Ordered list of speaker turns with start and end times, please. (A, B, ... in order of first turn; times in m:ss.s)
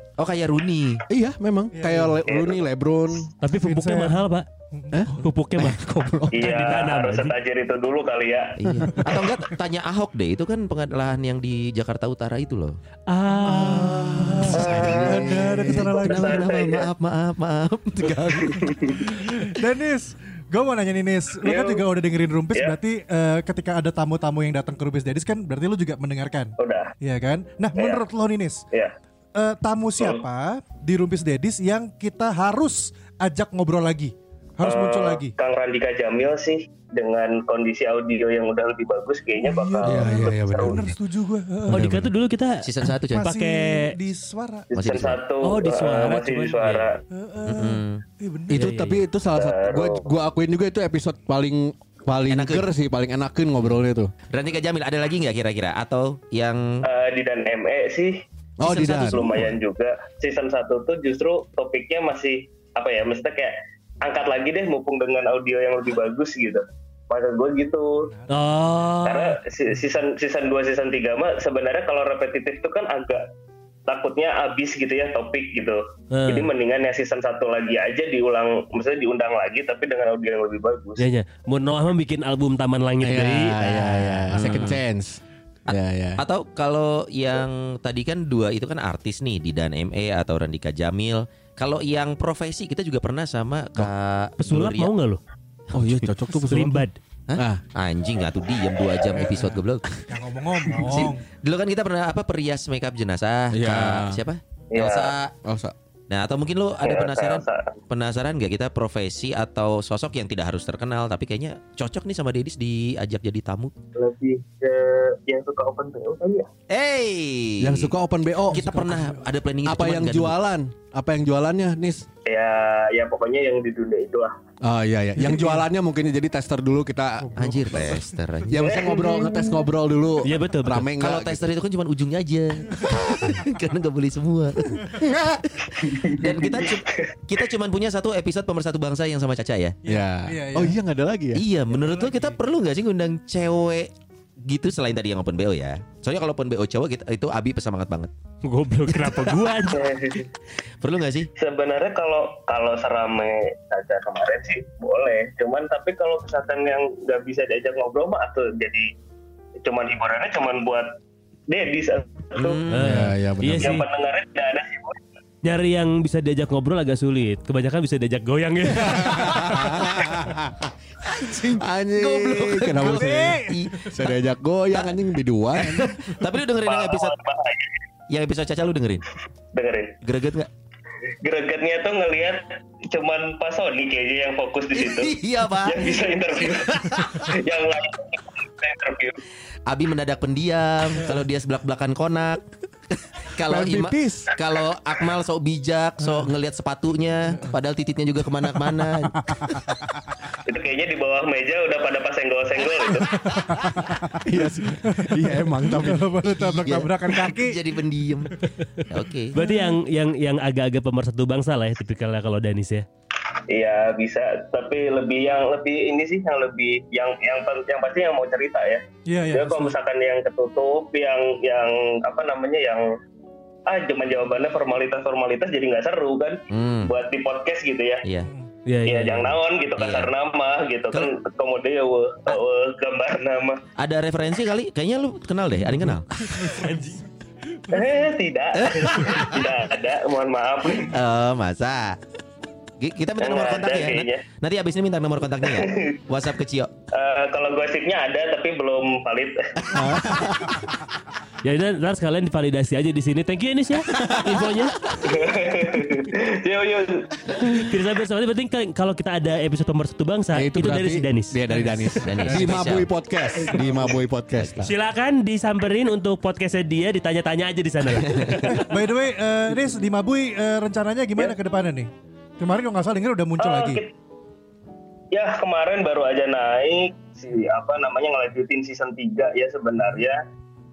0:00.2-0:01.0 A
0:01.1-0:03.3 B
0:01.7-0:02.2 C
0:02.3-0:02.6 D
0:03.4-0:04.5 E
0:03.5-0:05.1 C
0:04.9-0:06.6 B
0:05.1-0:07.4 E
0:06.3-0:08.6 D
0:08.6-0:12.8 A
0:08.7-0:09.0 B
0:13.1-0:14.5 E
0:13.4-0:16.5 C
0:13.5-0:15.9 B
0:14.5-0:15.4 D
0:14.7-0:18.8 A
0:16.0-0:16.9 D
0:18.6-0:19.1 D
0:19.1-0:28.6 C
0:21.4-0:21.8 D
0:26.6-0:26.9 D
0:27.8-0:28.0 D
0:29.4-0:35.3 C
0:30.0-0:30.2 D
0:34.6-0:40.9 D
0:39.4-0:41.9 C
0:39.8-0:40.9 B
0:41.7-0:42.1 B
0:41.7-0:42.6 E
0:42.6-0:43.2 A
0:43.1-0:44.7 C
0:43.2-0:43.9 E
0:44.7-0:47.0 D
0:44.7-0:45.2 A
0:45.4-0:46.9 E
0:47.1-0:48.7 C
0:47.4-0:48.0 A
0:48.5-0:54.1 B
0:48.5-0:49.0 E
0:49.3-0:50.1 D
0:52.3-0:52.7 A
0:54.3-0:56.8 A
0:56.8-1:08.1 D
0:58.6-0:59.2 B
0:58.6-0:59.6 A
1:08.1-1:09.0 C
1:08.3-1:09.4 E
1:09.0-1:13.2 D
1:13.9-1:21.0 D
1:16.1-1:16.5 E
1:21.0-1:24.4 E
1:23.0-1:26.2 B
1:24.3-1:24.8 A
1:25.7-1:34.9 A
1:34.4-1:35.2 E
1:35.7-1:36.1 A
1:35.7-1:37.6 B
1:36.3-1:37.0 E
1:37.3-1:39.9 A
1:40.1-1:41.2 C
1:40.8-1:45.3 A
1:43.5-1:44.2 B
1:44.7-1:45.1 D
1:45.4-1:45.8 B
1:46.1-1:53.7 A
1:46.8-1:47.8 D
1:54.0-1:56.5 D
1:56.7-1:57.9 A
1:57.6-2:02.1 B
1:58.5-2:00.4 A
1:58.5-1:58.8 C
2:02.3-2:04.3 D
2:04.6-2:11.5 B
2:05.2-2:05.6 C
2:07.4-2:08.9 A
2:07.4-2:08.0 C
2:08.6-2:09.5 D
2:10.2-2:10.9 E
2:11.0-2:15.1 A
2:15.0-2:15.4 B
2:15.8-2:17.4 D
2:16.0-2:19.8 A
2:19.8-2:20.8 C
2:19.8-2:21.4 B
2:21.4-2:28.1 A
2:21.7-2:22.4 C
2:28.4-2:29.9 E
2:29.0-2:29.4 A
2:29.7-2:30.3 D
2:30.8-2:31.3 A
2:31.4-2:38.9 D
2:39.6-2:40.9 D
2:41.5-2:42.6 D
2:42.4-2:43.0 A
2:42.7-2:43.8 E
2:42.8-2:43.8 B
2:43.6-2:45.0 D
2:45.4-2:49.7 E
2:48.8-2:50.7 B
2:49.4-2:50.1 A
2:51.0-2:54.1 A
2:51.4-2:56.0 B
2:52.8-2:53.7 C
2:54.7-2:57.2 A
2:56.6-2:57.8 D
2:58.1-2:59.0 A
2:59.5-3:00.0 D
3:00.0-3:00.5 A
3:01.2-3:09.2 D
3:04.7-3:07.4 A
3:09.7-3:12.4 A
3:13.1-3:19.7 A
3:13.5-3:14.2 B
3:13.6-3:14.2 C
3:19.2-3:19.8 C
3:20.5-3:23.3 D
3:23.0-3:27.6 C
3:24.2-3:26.2 B
3:26.3-3:28.4 A
3:28.9-3:29.4 A
3:29.3-3:32.9 E
3:29.4-3:29.8 C
3:33.5-3:42.9 D
3:39.1-3:39.8 C
3:43.7-3:48.0 D
3:46.5-3:46.9 A
3:48.0-3:48.3 A
3:48.7-3:49.4 E
3:48.8-3:53.6 D
3:49.8-3:50.1 A
3:53.8-3:56.5 A
3:56.4-3:57.0 C
3:56.5-3:57.0 E
3:57.7-4:01.0 D
3:58.6-3:59.4 A
4:00.9-4:02.0 A
4:02.8-4:06.7 A
4:03.2-4:04.2 D
4:05.4-4:06.0 D
4:06.9-4:09.8 D
4:09.7-4:10.4 B
4:10.1-4:10.4 A
4:11.4-4:14.8 E
4:14.0-4:14.4 B
4:15.0-4:17.7 D
4:17.5-4:21.4 E
4:20.3-4:24.7 B
4:21.5-4:22.5 C
4:22.0-4:22.9 A
4:24.3-4:24.7 A
4:24.6-4:28.6 E
4:28.0-4:28.6 A
4:28.6-4:33.8 C
4:33.4-4:33.9 D
4:35.1-4:40.2 D